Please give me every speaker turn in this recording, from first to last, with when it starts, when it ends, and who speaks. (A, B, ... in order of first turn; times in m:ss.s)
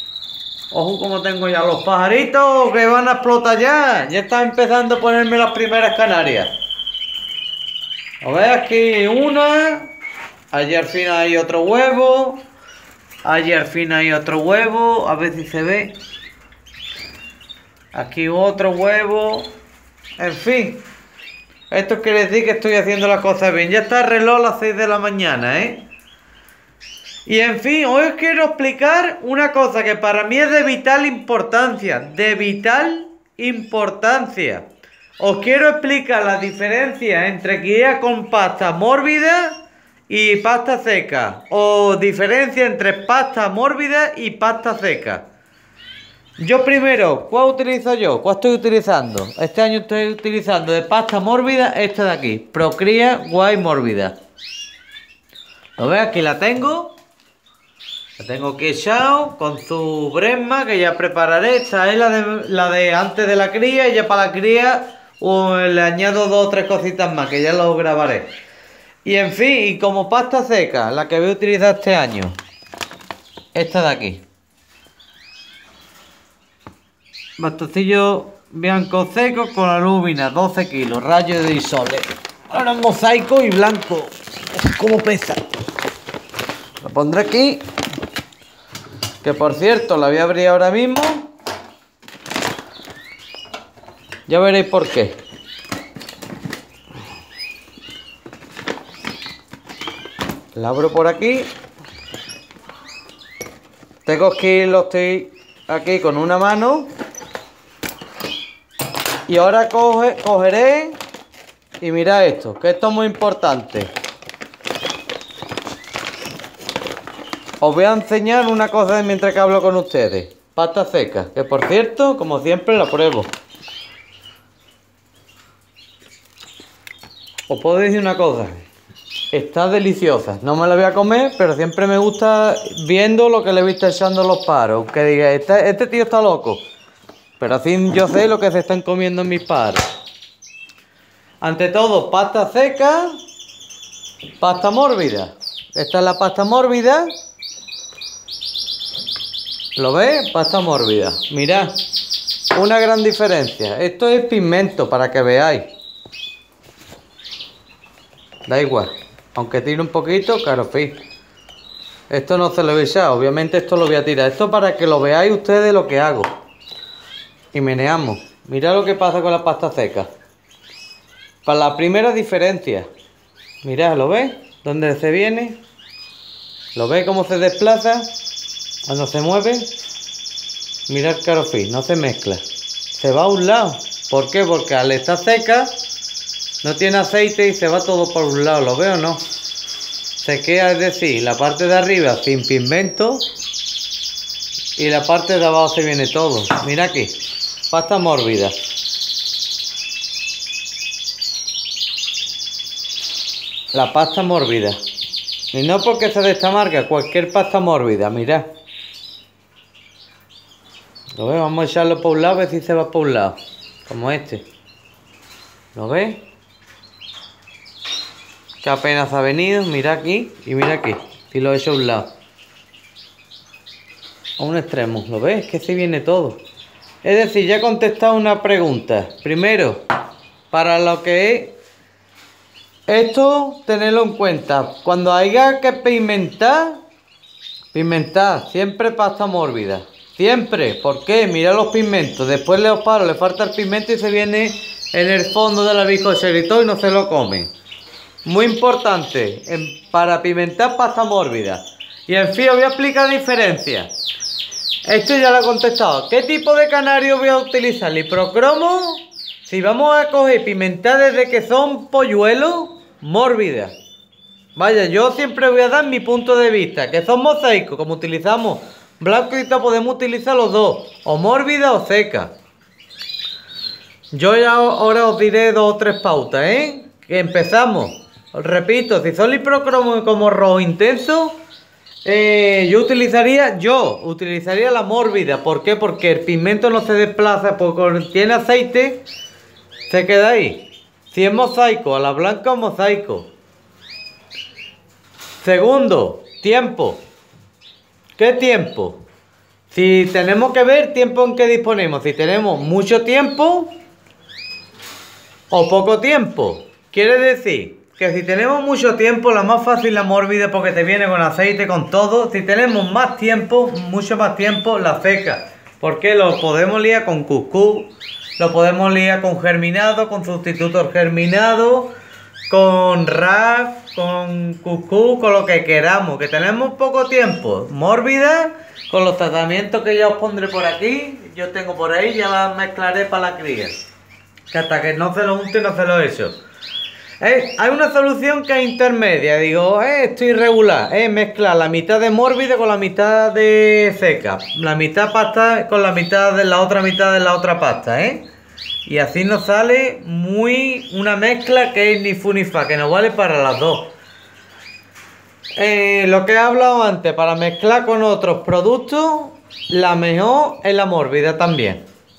0:00.7-0:06.5 A
0:08.2-0:09.9 A
0:10.5-0:12.4 A
0:13.2-0:15.9 A
0:17.9-0:19.5 A
0:20.2-0:20.8 A
0:21.7-0:25.8 A
0:27.3-0:34.6 A
0:35.2-0:39.6 A
0:40.1-0:45.2 A
0:46.4-0:54.1 A
0:55.8-0:56.9 A
0:58.2-1:08.3 A
1:09.0-1:12.4 A
1:13.5-1:14.2 A
1:17.4-1:25.4 A
1:26.8-1:27.6 A
1:29.2-1:31.3 A
1:34.3-1:35.1 A
1:40.5-1:41.5 A
1:44.0-1:46.9 A
1:49.3-1:51.0 A
1:51.8-1:53.9 A
1:57.6-2:03.3 A
2:07.5-2:08.6 A
2:09.3-2:16.6 A
2:17.4-2:19.8 A
2:21.4-2:23.2 A
2:24.4-2:27.1 A
2:29.8-2:31.7 A
2:32.5-2:35.6 A
2:38.4-2:41.0 A
2:42.1-2:46.3 A
2:47.5-2:50.1 A
2:51.4-2:52.8 A
2:53.6-2:55.6 A
2:56.7-2:58.1 A
2:58.8-2:59.7 A
3:00.9-3:02.4 A
3:02.9-3:05.7 A
3:06.6-3:09.2 A
3:10.2-3:13.2 A
3:14.8-3:17.2 A
3:17.7-3:18.5 A
3:23.7-3:24.8 A
3:25.5-3:28.5 A
3:31.2-3:34.4 A
3:35.7-3:36.2 A
3:38.6-3:42.1 A
3:44.4-3:46.4 A
3:47.0-3:49.8 A
3:50.5-3:51.5 A
3:52.9-3:56.8 A
3:57.7-4:07.5 A
4:08.2-4:13.9 A
4:14.9-4:23.7 A
4:24.6-4:32.3 A
4:34.1-4:41.4 A
4:42.0-4:49.0 A
4:49.9-4:53.3 A
4:55.4-4:57.0 A
4:58.2-4:59.0 A
4:59.7-5:03.7 A
5:05.5-5:21.9 A
5:22.5-5:33.8 A
5:34.5-5:36.3 A
5:37.2-5:48.2 A
5:48.8-5:53.9 A
5:55.6-6:01.8 A